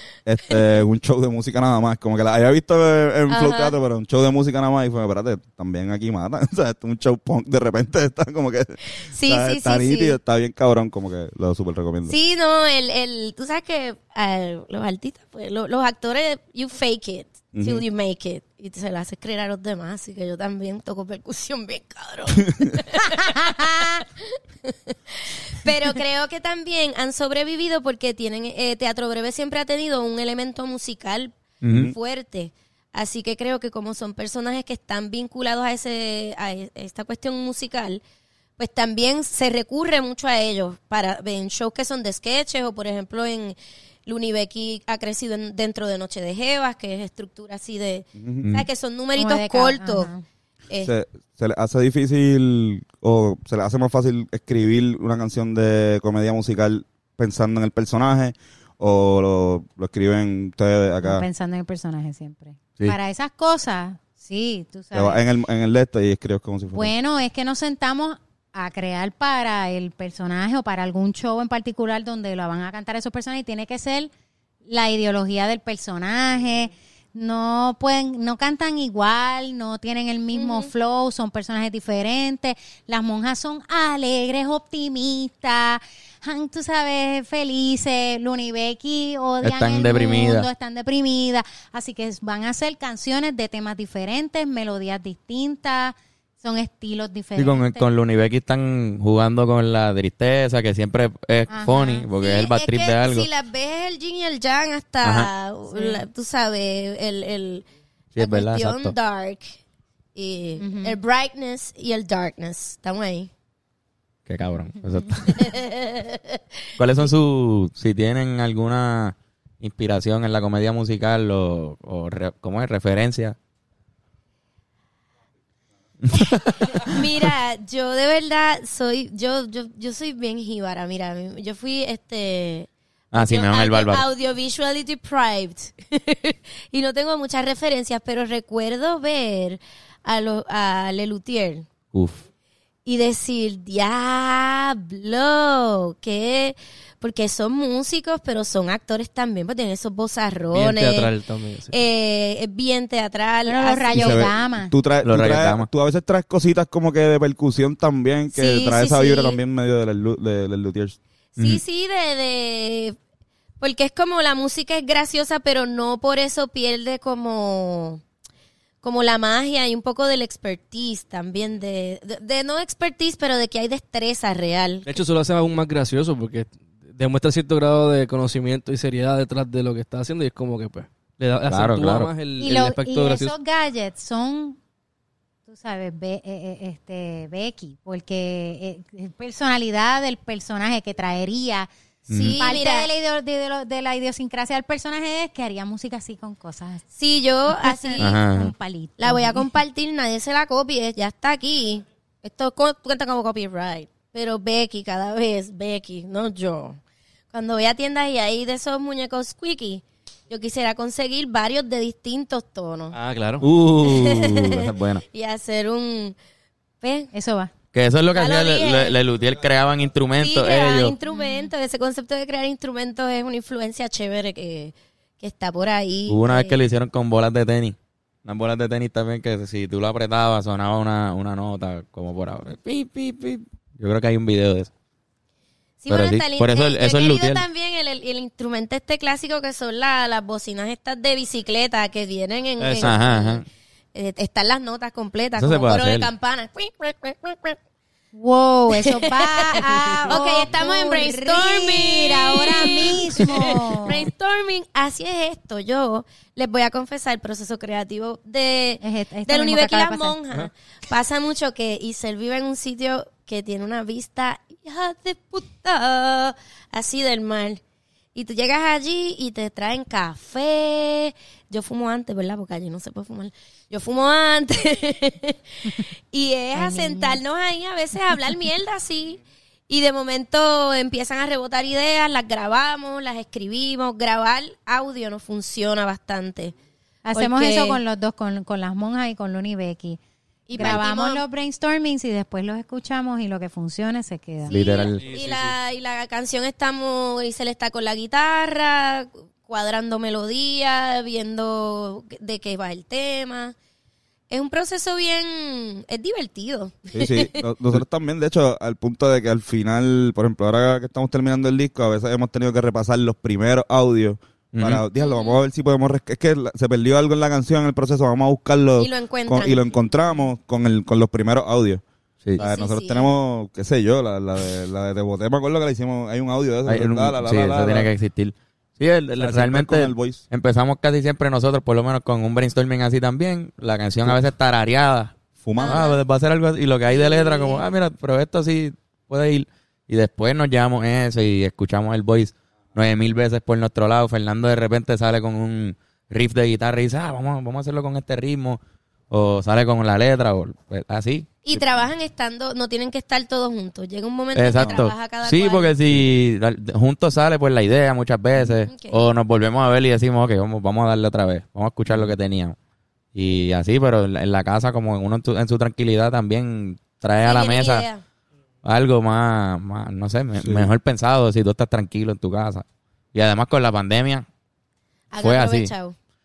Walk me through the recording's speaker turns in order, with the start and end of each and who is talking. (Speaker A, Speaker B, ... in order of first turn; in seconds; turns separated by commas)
Speaker A: 0.2-12.1, Speaker B: 3.3-3.8, Speaker B: 8.9-10.2, Speaker B: 12.1-38.0, Speaker A: 17.5-17.8, Speaker C: 23.2-24.0, Speaker D: 31.6-31.9, Speaker B: 38.6-50.1, Speaker A: 48.2-48.5, Speaker D: 48.4-48.7, Speaker C: 49.1-50.2, Speaker A: 50.8-61.2, Speaker C: 61.0-65.2, Speaker A: 64.9-66.9, Speaker C: 66.7-74.1, Speaker C: 74.6-97.9, Speaker B: 80.3-80.7, Speaker D: 89.4-90.5, Speaker D: 97.3-103.3, Speaker C: 101.5-102.1, Speaker B: 102.2-107.7, Speaker D: 105.0-105.3, Speaker C: 105.7-106.0, Speaker D: 108.1-109.0, Speaker B: 108.2-109.6, Speaker B: 110.1-113.3, Speaker C: 110.6-111.0, Speaker D: 114.3-115.5, Speaker B: 115.2-116.4, Speaker D: 116.8-123.3, Speaker D: 126.0-127.0, Speaker B: 126.7-141.7, Speaker D: 133.1-134.0, Speaker D: 141.9-142.2, Speaker B: 142.8-151.1, Speaker E: 150.5-151.8, Speaker B: 151.7-154.2, Speaker C: 153.4-154.7, Speaker A: 153.9-161.0, Speaker D: 155.0-155.7, Speaker B: 158.3-159.4, Speaker B: 161.3-163.0, Speaker B: 163.6-168.0, Speaker B: 168.8-174.9, Speaker E: 174.8-183.3, Speaker D: 181.5-182.1, Speaker C: 182.4-184.6, Speaker C: 185.5-191.7, Speaker D: 192.1-192.4, Speaker B: 192.1-192.9, Speaker C: 192.4-196.8, Speaker B: 196.9-198.2, Speaker C: 197.5-199.5, Speaker D: 198.0-198.5, Speaker B: 199.0-206.8, Speaker B: 207.3-212.9, Speaker E: 212.9-213.5, Speaker D: 213.4-215.0, Speaker B: 213.8-216.1, Speaker B: 216.8-217.1, Speaker C: 217.1-217.5, Speaker D: 217.7-220.9, Speaker B: 218.1-219.0, Speaker B: 220.2-226.6, Speaker C: 221.1-221.5, Speaker D: 226.1-234.7, Speaker B: 235.8-247.6, Speaker D: 235.9-237.4, Speaker E: 242.6-243.0, Speaker D: 242.8-243.4, Speaker D: 245.4-246.1, Speaker C: 248.1-254.1, Speaker B: 248.7-267.6, Speaker C: 258.8-260.2, Speaker B: 268.1-286.6, Speaker C: 276.5-277.2, Speaker C: 287.0-290.0, Speaker B: 287.1-287.8, Speaker B: 290.5-291.2, Speaker C: 290.5-294.6, Speaker B: 294.5-303.5, Speaker D: 294.5-295.0, Speaker E: 294.9-295.6, Speaker B: 304.3-307.5, Speaker A: 306.9-321.8, Speaker D: 314.5-314.8, Speaker B: 315.0-315.4, Speaker B: 318.8-319.7, Speaker A: 322.4-327.9, Speaker B: 322.4-323.1, Speaker D: 326.7-351.4, Speaker A: 329.2-330.2, Speaker A: 335.4-335.9, Speaker B: 335.6-336.0, Speaker B: 336.9-337.6, Speaker B: 351.4-355.8, Speaker D: 354.3-362.6, Speaker A: 354.5-354.9, Speaker B: 358.7-359.0, Speaker D: 363.1-367.9, Speaker B: 367.2-368.0, Speaker D: 368.6-374.2, Speaker A: 370.4-370.7, Speaker B: 375.1-375.9, Speaker D: 375.2-375.7